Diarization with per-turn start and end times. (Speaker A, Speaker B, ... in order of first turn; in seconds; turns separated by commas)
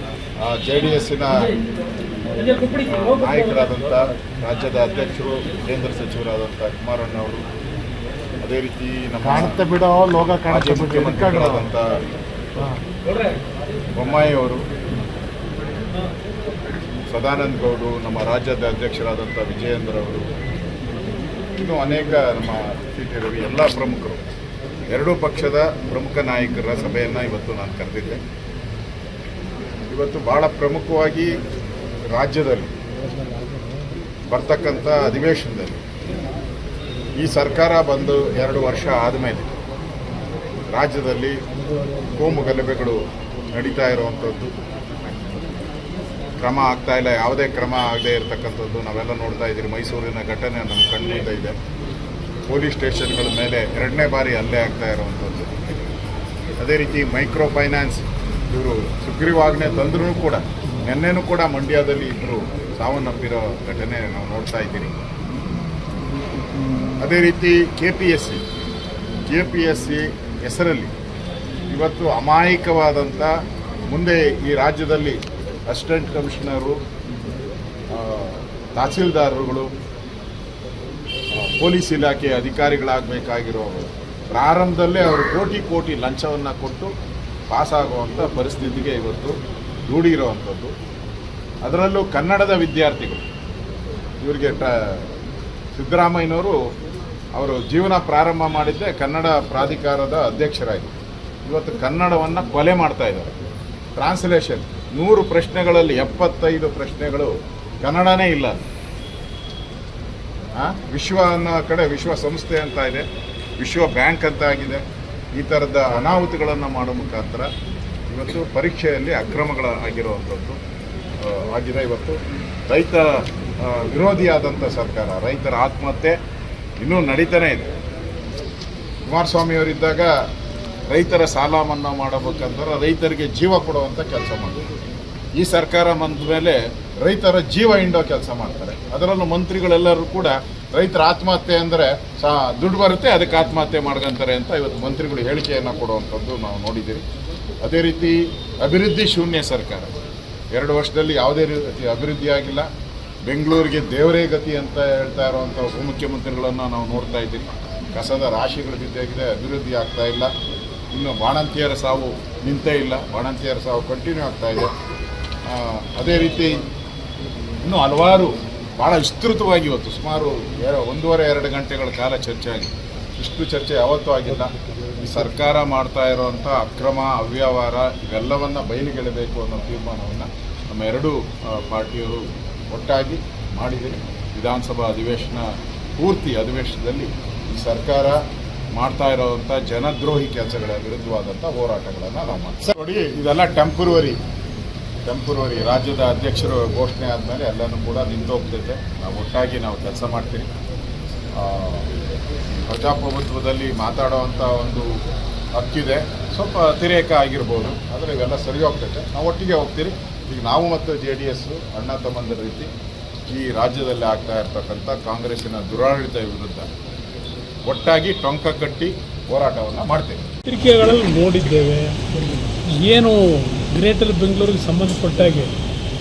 Speaker A: 0.4-1.3, Speaker A: 2.6-7.4, Speaker A: 8.4-9.6, Speaker B: 9.2-11.7, Speaker A: 10.5-12.0, Speaker B: 12.6-12.8, Speaker A: 13.9-14.6, Speaker A: 17.1-20.3, Speaker A: 21.5-24.2, Speaker A: 24.9-28.2, Speaker A: 29.9-31.3, Speaker A: 32.1-32.7, Speaker B: 33.1-33.7, Speaker A: 34.3-35.9, Speaker A: 37.2-39.5, Speaker A: 40.7-41.4, Speaker A: 42.1-43.0, Speaker A: 43.5-45.4, Speaker A: 46.4-51.5, Speaker A: 52.5-55.7, Speaker A: 56.6-65.0, Speaker A: 67.0-68.4, Speaker A: 69.3-70.9, Speaker A: 71.7-73.3, Speaker A: 73.9-76.8, Speaker A: 77.9-79.7, Speaker A: 81.3-86.9, Speaker A: 87.5-90.7, Speaker A: 91.6-93.2, Speaker A: 94.2-95.1, Speaker A: 95.7-96.6, Speaker A: 97.3-103.3, Speaker A: 104.0-108.6, Speaker A: 110.5-113.1, Speaker A: 113.6-117.5, Speaker A: 118.1-120.6, Speaker A: 121.2-126.2, Speaker A: 126.8-127.7, Speaker A: 129.1-130.2, Speaker A: 130.9-134.7, Speaker A: 135.3-147.1, Speaker A: 147.6-149.9, Speaker A: 150.5-152.7, Speaker A: 153.2-160.3, Speaker A: 160.9-164.7, Speaker A: 165.4-166.7, Speaker A: 167.6-188.2, Speaker B: 174.8-175.1, Speaker A: 188.7-194.2, Speaker A: 195.0-200.5, Speaker A: 201.3-201.9, Speaker A: 202.7-204.9, Speaker A: 205.5-212.7, Speaker A: 213.3-216.7, Speaker A: 217.7-220.2, Speaker C: 220.5-222.0, Speaker C: 222.8-225.5